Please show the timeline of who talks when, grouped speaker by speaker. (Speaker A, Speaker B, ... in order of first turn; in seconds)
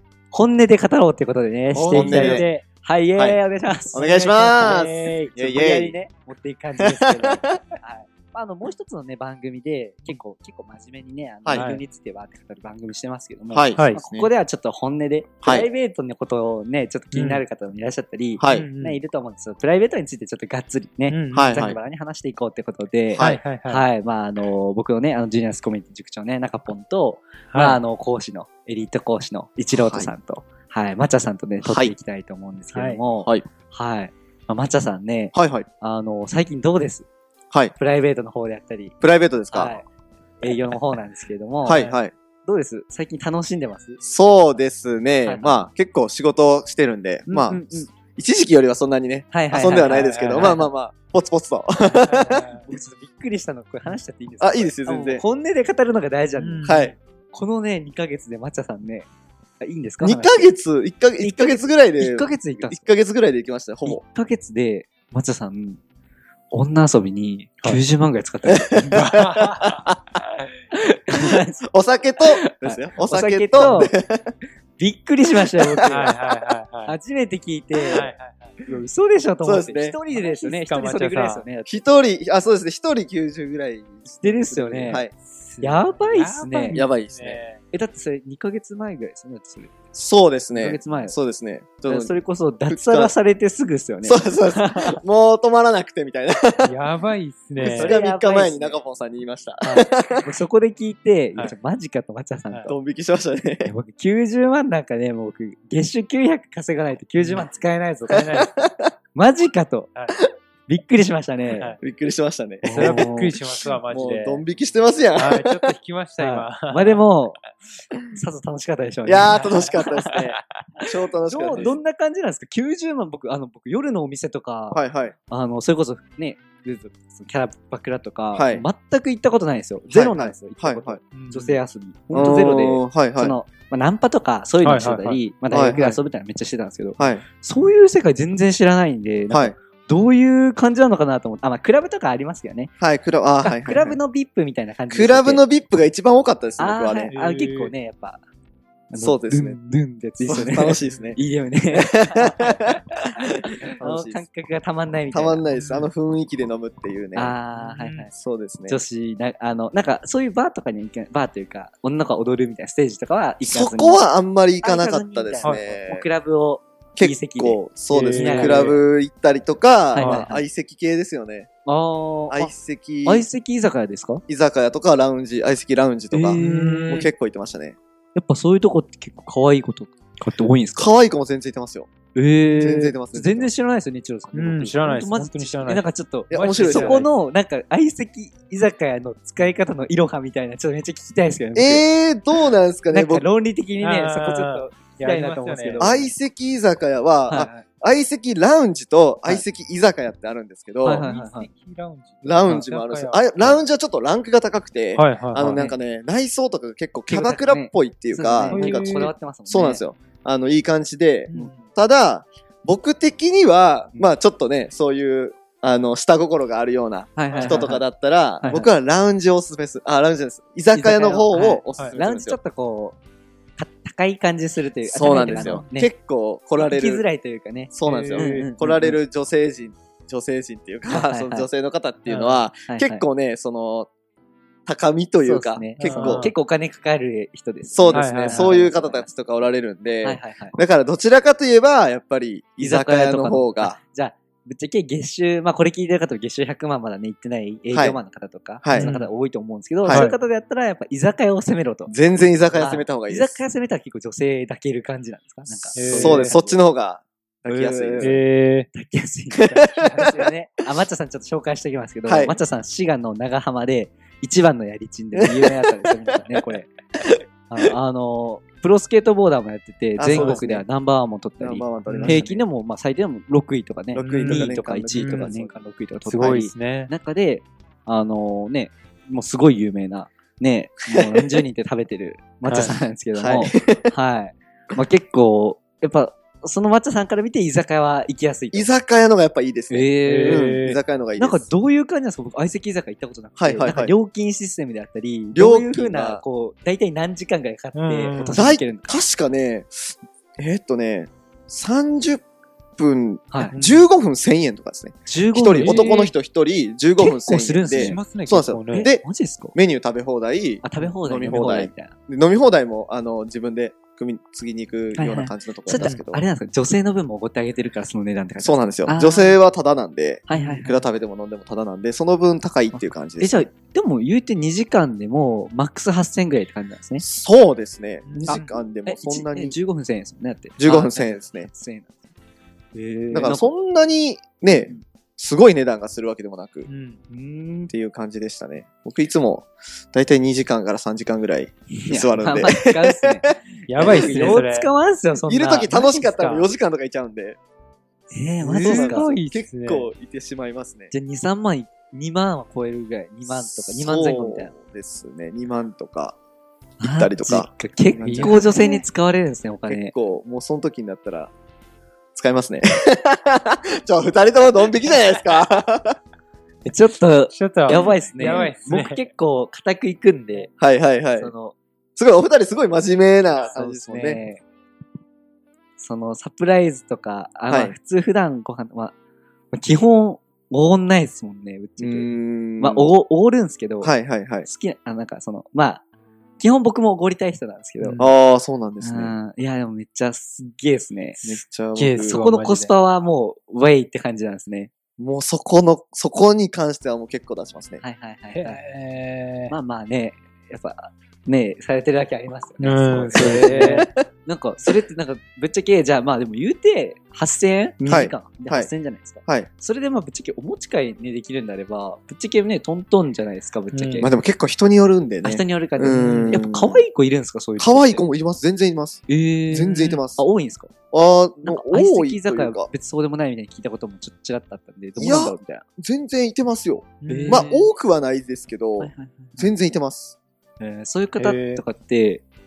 Speaker A: 0.3-37.1, 37.8-38.9, 39.5-39.8, 40.4-41.9, 42.4-44.0, 45.2-45.6, 47.3-47.9, 49.3-50.7, 52.6-56.8, 57.3-59.1, 59.6-60.5, 61.2-62.9, 63.8-65.8, 66.5-68.9, 70.7-71.6, 72.5-73.9, 74.8-76.2, 76.8-78.1, 78.7-81.8, 84.0-85.0, 85.6-86.8, 87.7-89.7, 90.5-91.2, 91.8-95.0, 97.6-98.8, 99.6-102.7, 103.6-108.4, 109.1-109.9, 110.7-111.8, 112.6-113.4, 116.2-117.4, 118.1-120.2, 121.3-142.7, 143.4-145.4, 146.6-148.2, 148.9-152.8, 153.8-155.5, 157.1-158.1, 158.7-164.0, 164.6-168.8, 169.9-170.4, 171.7-172.5, 173.0-174.2, 176.1-177.1, 178.1-180.9, 182.1-191.8, 192.9-196.1, 197.3-197.6, 200.8-201.5, 205.5-205.8, 207.1-209.8, 211.3-211.6, 217.2-217.8, 218.4-218.7, 220.7-223.0, 223.6-225.9, 226.5-229.0, 230.9-231.5, 232.7-233.1, 235.2-239.1, 240.0-240.6, 242.6-251.9, 252.5-256.6, 257.4-258.2, 258.7-266.7, 267.5-288.7, 289.7-290.6, 291.2-299.0, 303.3-303.6, 305.1-306.1, 307.0-308.0, 308.7-309.5, 310.6-311.9, 314.9-319.4, 320.3-320.8, 322.7-327.0, 328.3-332.0, 332.7-333.5, 334.5-334.8, 337.1-337.7, 341.8-345.8, 348.1-349.1, 350.9-354.5, 356.8-359.9, 366.6-370.5, 371.1-371.6, 373.4-374.4, 375.8-378.9, 379.5-385.8, 386.4-388.1, 388.8-391.4, 392.1-394.7, 397.8-398.6, 399.5-414.1, 415.2-418.0, 419.1-420.7, 421.4-425.6, 427.1-427.7, 428.8-429.5, 430.6-432.2
Speaker B: 1.7-2.6, 4.5-5.3, 11.5-11.8, 13.8-14.0, 17.1-17.4, 18.5-19.0, 21.1-21.6, 23.2-23.9, 27.5-27.8, 32.7-33.0, 49.8-50.5, 52.1-52.6, 56.4-56.9, 68.9-69.8, 73.6-73.8, 75.8-76.9, 77.9-78.6, 80.1-81.5, 84.9-87.6, 96.6-98.0, 107.2-107.5, 108.1-108.5, 111.5-111.8, 112.7-114.4, 115.2-117.0, 119.3-120.3, 121.4-121.7, 131.1-131.6, 134.6-135.2, 147.1-147.7, 155.5-155.9, 157.6-158.1, 165.4-165.7, 167.9-168.8, 169.9-170.2, 176.4-177.1, 184.3-187.1, 193.8-195.9, 201.0-203.3, 204.9-205.7, 208.4-209.1, 211.3-211.6, 217.3-217.8, 227.8-228.5, 232.1-232.4, 235.8-236.3, 237.9-238.6, 248.7-249.1, 249.9-250.2, 255.8-256.4, 258.0-258.7, 270.1-270.4, 271.9-272.2, 274.0-275.3, 276.0-276.9, 290.0-290.8, 297.7-298.4, 303.5-303.9, 305.6-306.1, 307.8-308.9, 320.3-320.6, 328.0-328.6, 336.6-337.0, 343.7-344.7, 345.6-346.5, 348.5-349.9, 357.9-358.6, 367.3-369.1, 387.8-388.0, 391.7-392.7, 398.3-399.5, 402.6-403.9, 413.7-414.1, 427.0-427.5, 431.2-431.6
Speaker C: 1.9-2.5, 3.9-6.0, 7.0-7.6, 11.4-11.7, 13.5-14.3, 15.4-15.7, 18.4-18.7, 21.3-21.8, 23.1-23.4, 29.7-30.1, 31.6-31.9, 35.3-35.6, 39.0-39.8, 41.6-42.1, 44.0-52.6, 54.4-55.2, 56.6-56.9, 60.0-64.0, 68.7-70.0, 71.7-74.3, 75.7-76.1, 79.4-80.0, 81.7-85.1, 86.7-87.4, 89.9-92.2, 92.7-93.1, 94.0-96.7, 97.6-100.3, 102.7-103.7, 108.2-108.9, 111.8-115.7, 119.0-121.8, 124.7-125.1, 128.3-128.7, 129.9-131.0, 132.1-133.3, 135.5-136.0, 137.0-137.2, 139.3-139.5, 142.8-144.0, 144.9-147.1, 149.0-149.6, 150.2-151.2, 151.7-152.8, 153.4-154.2, 155.1-157.3, 158.1-158.8, 163.4-166.1, 167.0-171.5, 172.3-173.2, 174.3-177.8, 180.8-181.9, 182.6-183.5, 186.3-187.1, 191.5-193.2, 195.8-201.1, 202.2-222.4, 224.8-227.0, 227.7-233.9, 234.7-236.3, 237.7-243.8, 247.7-248.0, 248.6-248.9, 249.8-250.1, 251.9-253.4, 255.6-258.1, 259.4-260.3, 262.0-262.4, 265.2-265.5, 269.9-270.6, 271.4-272.4, 273.9-275.6, 281.0-281.3, 283.2-283.9, 288.5-291.4, 293.4-293.9, 295.3-296.2, 298.3-302.2, 302.8-316.2, 318.4-323.4, 327.0-329.5, 330.6-331.5, 333.1-336.7, 337.7-344.4, 345.3-347.4, 348.4-350.9, 353.3-356.1, 356.9-357.5, 358.1-358.8, 359.6-361.3, 362.1-366.0, 367.7-368.5, 370.6-371.3, 371.9-374.2, 377.5-377.7, 381.8-382.9, 383.8-384.5, 388.0-389.1, 391.2-392.2, 395.0-397.8, 403.2-404.0, 407.8-408.7, 414.0-416.8, 417.6-420.2, 420.9-422.7, 425.0-430.1